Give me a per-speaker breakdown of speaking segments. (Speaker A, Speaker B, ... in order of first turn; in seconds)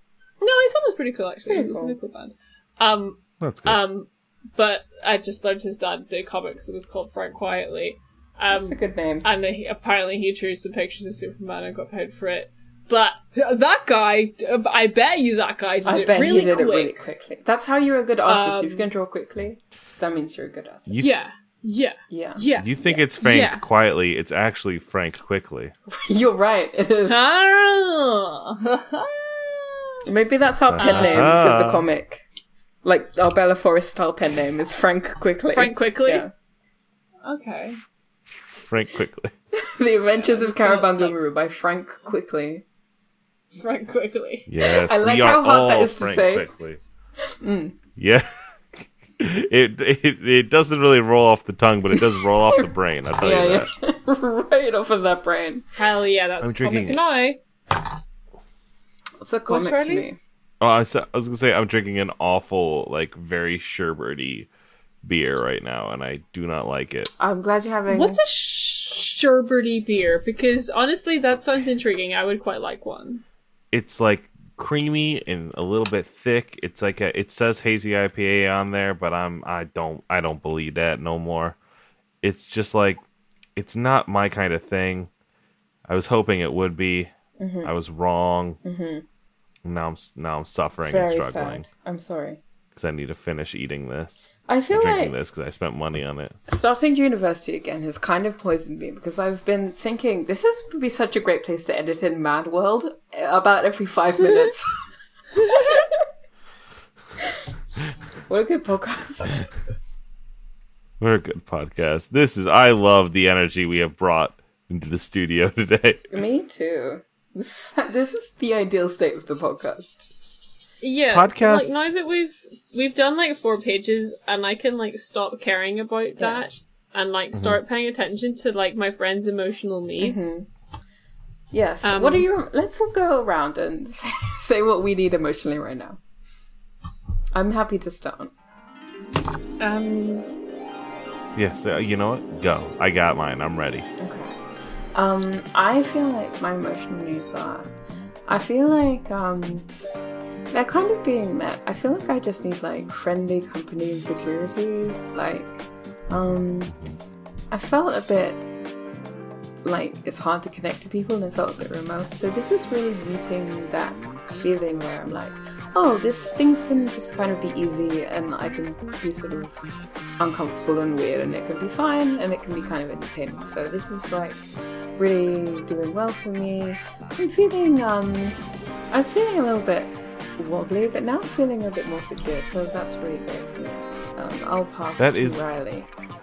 Speaker A: 0.4-17.0, 18.2-18.9, 21.0-23.6, 27.1-30.0, 30.8-31.3, 35.5-36.2, 37.2-37.8, 40.1-41.2, 43.5-44.5, 55.8-57.4, 59.5-60.1, 67.9-73.2, 105.5-105.7, 120.8-130.4, 131.8-132.2, 139.6-140.3
Speaker B: 1.4-2.0, 8.5-9.3, 15.8-20.9, 22.1-22.4, 25.9-27.2, 30.1-32.2, 32.8-36.3, 39.5-42.6, 44.7-46.5, 47.2-47.8, 51.9-52.7, 53.2-55.7, 59.2-60.2, 67.2-68.2, 87.4-87.7, 88.6-89.0, 90.8-92.4, 94.5-95.1, 96.5-104.8, 105.5-106.0, 108.3-109.5, 116.1-120.1, 126.2-126.5, 130.0-130.4, 131.5-136.0, 137.3-138.3, 144.0-144.4, 144.9-147.7, 148.3-149.7, 150.5-156.7, 157.5-158.4, 159.6-169.6, 170.2-174.4, 174.9-178.4, 178.9-185.9
Speaker C: 3.4-3.8, 20.9-21.1, 22.6-25.7, 30.7-31.9, 38.4-39.3, 44.5-46.8, 48.0-53.7, 56.4-57.0, 60.6-64.5, 65.0-67.1, 73.7-81.5, 82.2-83.0, 83.5-85.1, 85.9-87.1, 87.6-88.6, 89.6-91.7, 92.8-96.3, 111.0-116.1, 121.1-121.9, 141.3-143.8, 156.7-157.0, 185.0-185.4